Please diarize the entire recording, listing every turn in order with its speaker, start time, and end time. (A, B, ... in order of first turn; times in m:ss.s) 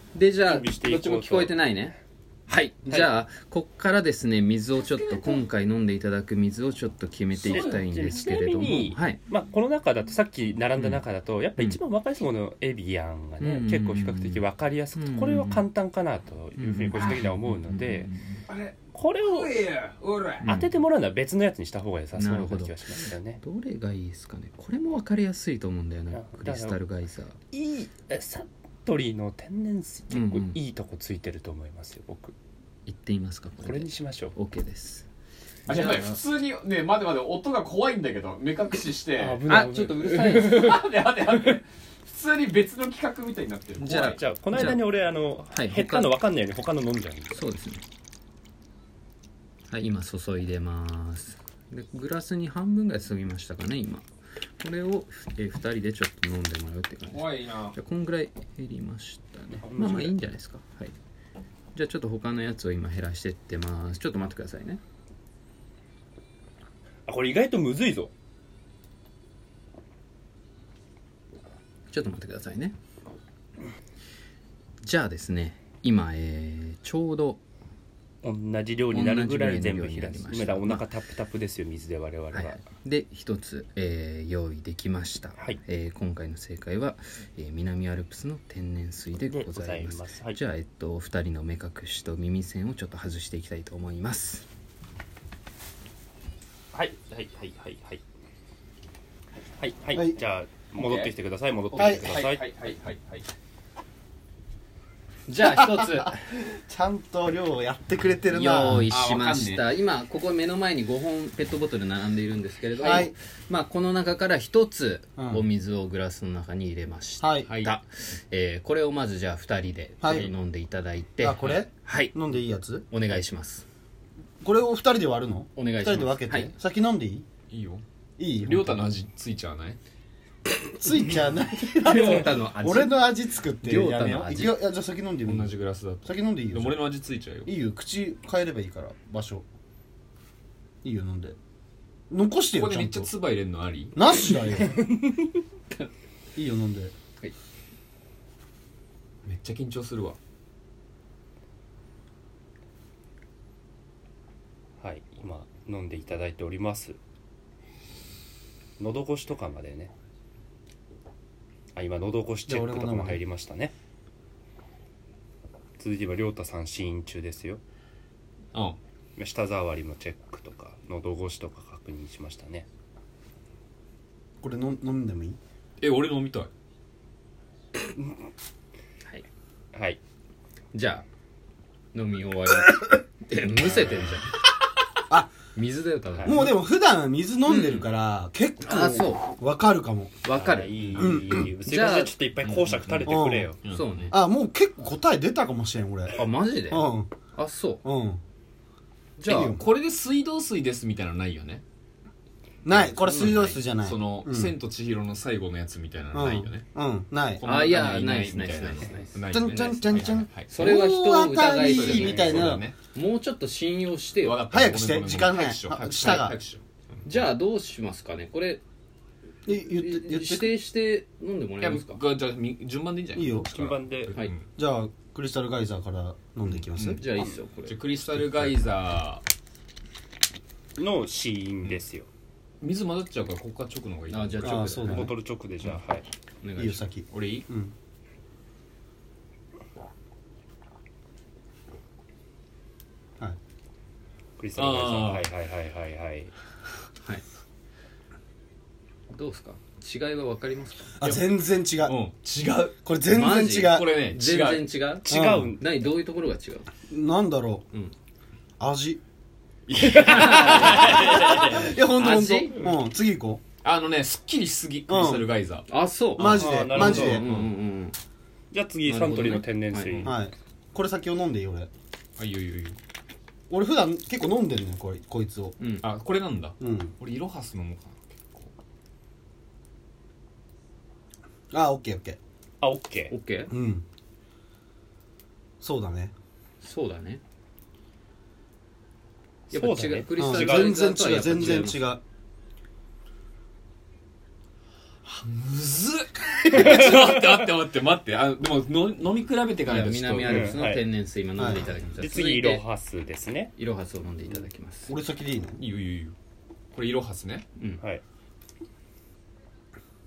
0:00.1-0:02.0 A
0:00.5-0:01.6 B
0:02.5-0:09.2 A
0:04.8-0:05.5 C
0:07.4-0:18.1 B
0:07.5-0:07.8 C
0:13.4-0:14.4 A
0:15.0-0:15.7 A
0:16.6-0:18.4 A
0:18.5-0:18.7 C
0:18.9-0:19.6 B
0:19.2-0:20.4 C
0:20.4-0:20.7 A
0:20.4-0:23.4 B
0:22.2-0:27.4 A
0:26.1-0:26.8 B
0:27.5-0:32.3 B
0:30.1-0:30.6 A
0:32.8-0:35.1 A
0:33.6-0:34.3 B
0:35.7-0:39.4 C
0:35.7-0:36.2 A
0:39.2-0:40.8 B
0:39.5-0:40.7 A
0:40.2-0:44.2 C
0:43.8-0:44.8 A
0:44.0-0:47.4 B
0:45.5-0:46.1 A
0:47.3-0:47.8 A
0:49.7-0:54.1 A
0:54.6-1:00.9 A
0:57.1-0:57.7 C
0:59.6-1:00.1 B
1:01.7-1:04.8 A
1:07.0-1:08.1 B
1:11.9-1:12.7 A
1:14.8-1:17.4 A
1:18.2-1:22.6 B
1:18.9-1:20.9 A
1:22.3-1:34.5 A
1:29.3-1:30.4 B
1:36.7-1:38.0 B
1:39.6-1:42.4 B
1:40.8-1:41.1 C
1:41.7-1:43.3 C
1:41.7-1:42.1 D
1:45.3-1:46.1 A
1:45.4-1:48.9 D
1:48.3-2:02.1 A
1:48.9-1:49.6 C
1:52.8-1:53.1 C
1:52.8-1:53.1 D
1:55.2-1:55.4 D
1:57.2-1:57.5 D
1:57.5-1:57.7 C
2:00.0-2:00.3 D
2:01.2-2:02.8 D
2:02.9-2:03.6 A
2:04.4-2:07.3 D
2:05.6-2:06.5 A
2:07.5-2:07.8 C
2:08.2-2:08.8 D
2:08.4-2:09.8 C
2:10.7-2:15.5 D
2:11.8-2:13.0 A
2:13.6-2:14.6 A
2:15.2-2:17.5 C
2:16.0-2:16.8 D
2:17.4-2:19.4 D
2:20.8-2:21.4 D
2:22.1-2:23.1 D
2:22.5-2:24.0 C
2:23.9-2:24.8 D
2:24.7-2:25.2 B
2:26.4-2:26.9 D
2:29.2-2:30.2 C
2:34.8-2:37.0 B
2:38.8-2:39.9 B
2:41.7-2:43.7 B
2:42.4-2:43.2 D
2:45.8-2:47.6 B
2:49.2-2:52.6 B
2:54.4-2:55.4 D
2:55.8-2:56.5 C
2:59.7-3:00.0 B
3:00.7-3:01.0 A
3:01.9-3:04.4 A
3:05.5-3:06.5 A
3:06.1-3:06.4 B
3:06.2-3:10.1 D
3:07.5-3:07.9 A
3:08.6-3:09.3 A
3:10.2-3:11.0 A
3:10.3-3:13.6 B
3:11.0-3:11.5 D
3:11.6-3:12.1 A
3:12.4-3:14.1 C
3:13.0-3:13.5 D
3:13.7-3:14.2 A
3:14.1-3:16.2 D
3:16.1-3:17.8 A
3:16.7-3:17.1 D
3:17.8-3:18.2 D
3:19.2-3:19.5 A
3:19.3-3:19.6 D
3:19.3-3:21.6 C
3:22.6-3:24.5 D
3:22.7-3:26.6 C
3:23.0-3:23.6 A
3:26.1-3:27.4 D
3:27.4-3:30.5 C
3:27.4-3:29.2 A
3:29.3-3:32.6 D
3:30.5-3:34.4 A
3:31.6-3:32.8 C
3:31.9-3:32.4 B
3:34.2-3:37.3 C
3:34.5-3:36.4 D
3:37.0-3:38.6 A
3:39.5-3:40.5 D
3:39.7-3:42.0 A
3:41.6-3:44.5 C
3:43.2-3:43.5 D
3:43.5-3:44.1 B
3:44.6-3:47.0 D
3:46.5-3:47.0 C
3:47.0-3:47.8 A
3:47.7-3:49.2 C
3:50.8-3:52.1 B
3:52.6-3:54.7 C
3:54.1-3:55.1 A
3:54.4-3:55.1 D
3:54.9-3:56.1 B
3:56.4-3:56.8 A
3:56.6-3:57.7 D
3:57.1-3:57.4 C
4:04.4-4:06.3 B
4:04.6-4:05.3 C
4:09.1-4:10.9 A
4:10.9-4:12.0 D
4:11.0-4:11.3 C
4:11.8-4:12.7 C
4:12.8-4:13.9 D
4:13.1-4:16.7 A
4:13.6-4:14.6 C
4:15.0-4:15.9 B
4:15.1-4:15.5 D
4:16.9-4:17.6 D
4:18.6-4:19.0 D
4:19.7-4:21.1 C
4:19.8-4:21.7 B
4:20.0-4:22.6 A
4:20.7-4:23.4 D
4:23.6-4:25.6 C
4:24.9-4:25.3 D
4:25.7-4:28.0 A
4:26.2-4:27.2 D
4:26.3-4:27.2 B
4:26.8-4:27.5 C
4:28.5-4:30.1 B
4:28.8-4:29.9 A
4:30.0-4:31.7 D
4:32.2-4:32.8 C
4:33.5-4:35.6 D
4:35.6-4:35.8 A
4:35.8-4:38.5 C
4:36.6-4:36.9 D
4:41.5-4:42.2 D
4:42.6-4:43.1 B
4:43.1-4:43.5 A
4:43.5-4:43.8 D
4:45.6-4:46.1 D
4:46.6-4:47.2 A
4:49.5-4:50.7 B
4:49.5-4:51.8 A
4:50.2-4:52.0 D
4:51.3-4:51.6 B
4:55.1-5:00.5 C
4:56.6-4:57.1 B
4:59.7-5:02.6 A
5:00.2-5:00.8 B
5:01.4-5:01.8 D
5:02.0-5:03.5 B
5:03.6-5:04.9 A
5:04.9-5:05.6 D
5:05.6-5:06.1 C
5:06.7-5:07.4 C